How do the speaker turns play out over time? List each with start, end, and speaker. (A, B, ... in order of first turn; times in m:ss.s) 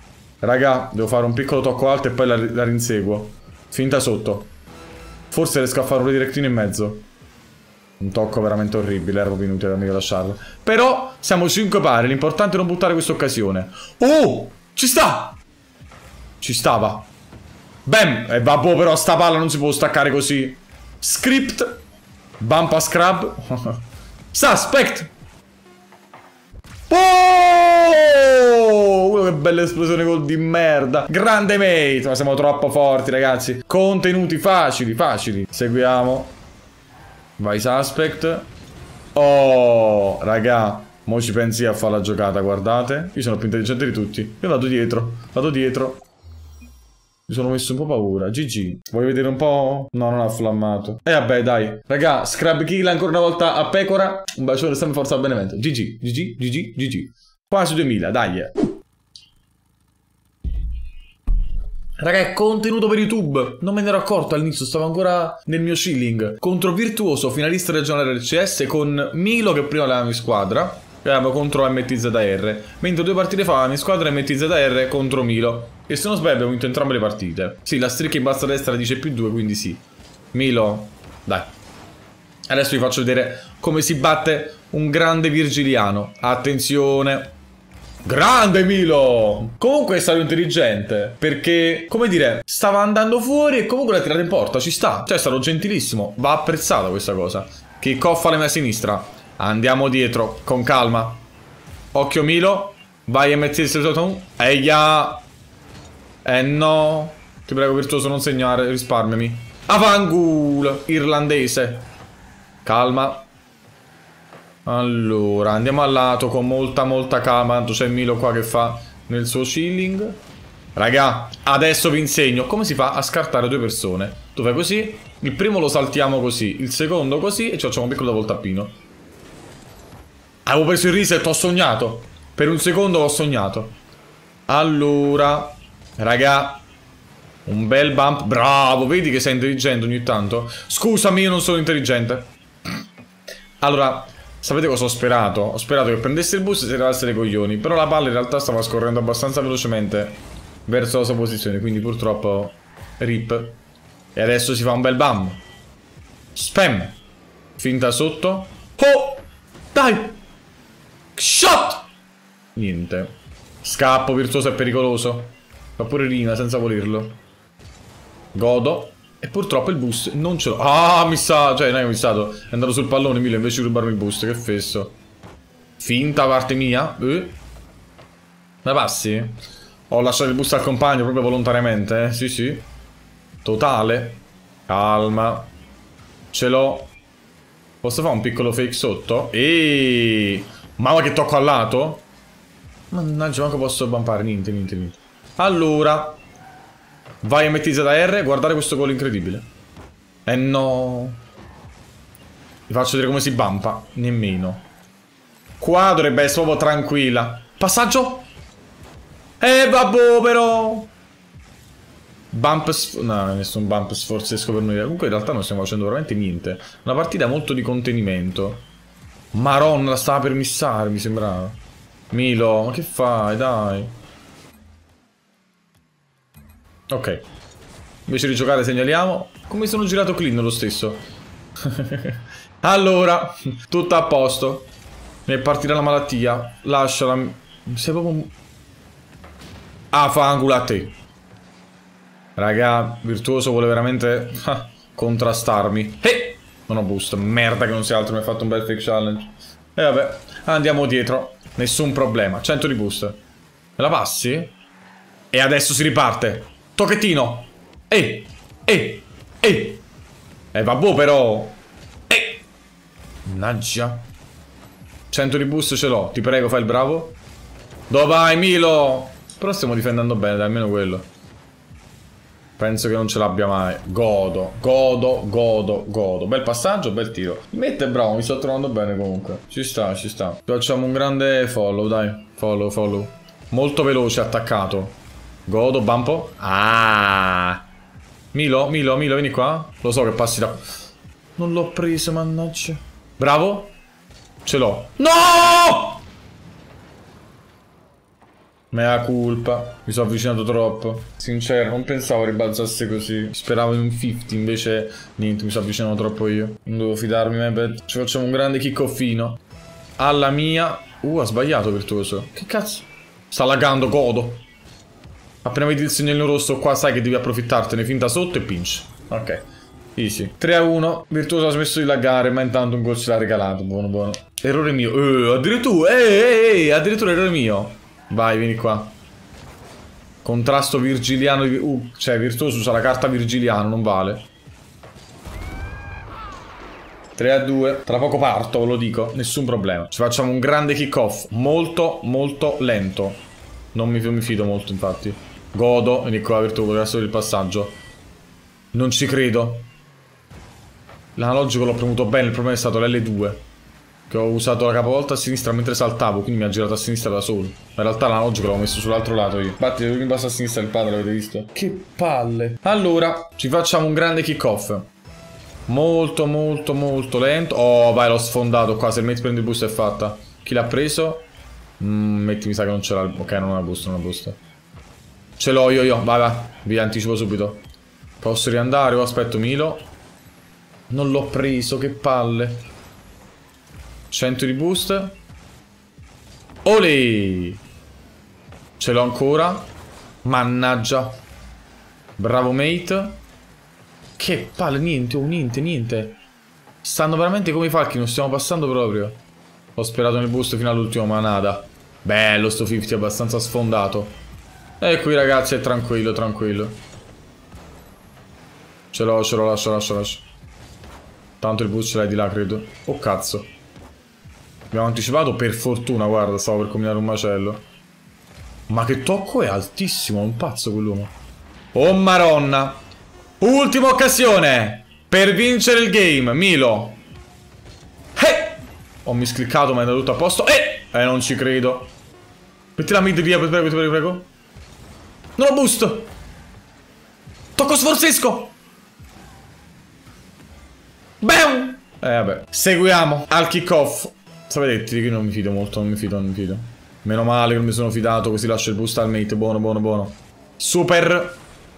0:00.4-0:04.5 A
0:05.3-0:07.1 A
0:08.0-0:15.4 A
0:16.4-0:17.1 A
0:17.8-0:21.8 A
0:22.4-0:25.1 A
0:26.9-0:36.4 A
0:37.4-0:38.5 A
0:39.1-0:46.0 A
0:47.3-0:58.5 A
1:02.0-1:21.5 A
1:22.5-1:27.4 A
1:28.0-1:41.2 A
1:41.9-1:45.2 A
1:46.2-1:51.9 A
1:52.6-1:53.3 A
1:54.6-2:00.2 A
2:00.8-2:08.8 A
2:10.4-2:13.8 A
2:14.5-2:16.6 A
2:17.4-2:22.3 A
2:23.6-2:33.6 A
2:34.1-2:35.4 A
2:36.3-2:37.0 A
2:37.6-2:40.2 A
2:41.2-2:41.8 A
2:42.5-2:47.2 A
2:48.3-2:55.0 A
2:55.8-2:57.4 A
2:58.6-3:02.7 A
3:03.4-3:05.5 A
3:06.3-3:06.9 A
3:07.8-3:12.1 A
3:12.9-3:16.2 A
3:17.2-3:19.5 A
3:20.2-3:21.2 A
3:22.7-3:24.6 A
3:25.6-3:28.3 A
3:29.4-3:30.9 A
3:32.3-3:38.7 A
3:39.3-3:41.6 A
3:42.1-3:43.9 A
3:46.9-3:47.2 A
3:48.0-3:51.0 A
3:51.6-3:54.7 A
3:55.2-3:58.3 A
3:59.9-4:01.0 A
4:02.4-4:13.2 A
4:13.8-4:14.5 A
4:15.3-4:19.8 A
4:20.5-4:22.4 A
4:23.2-4:24.0 A
4:25.1-4:27.2 A
4:27.9-4:31.1 A
4:32.6-4:47.6 A
4:48.3-4:50.7 A
4:51.4-4:53.8 A
4:54.4-4:56.0 A
4:58.7-5:09.4 A
5:10.0-5:14.4 A
5:15.4-5:29.0 A
5:30.2-5:34.3 A
5:37.2-5:43.2 A
5:43.7-5:47.8 A
5:48.7-5:49.7 A
5:51.1-5:53.4 A
5:54.1-6:04.9 A
6:05.7-6:11.3 A
6:11.8-6:14.4 A
6:15.4-6:17.6 A
6:18.2-6:19.9 A
6:20.9-6:22.7 A
6:24.1-6:25.2 A
6:26.6-6:27.6 A
6:28.8-6:29.7 A
6:30.2-6:31.2 A
6:32.2-6:33.2 A
6:34.2-6:36.2 A
6:36.8-6:39.2 A
6:39.8-6:44.2 A
6:44.8-6:46.8 A
6:48.9-6:50.3 A
6:51.4-6:53.5 A
6:54.7-6:57.7 A
6:58.7-7:01.1 A
7:01.7-7:02.8 A
7:03.4-7:07.0 A
7:08.2-7:11.9 A
7:12.7-7:14.3 A
7:15.4-7:16.1 A
7:17.6-7:18.6 A
7:21.2-7:31.4 A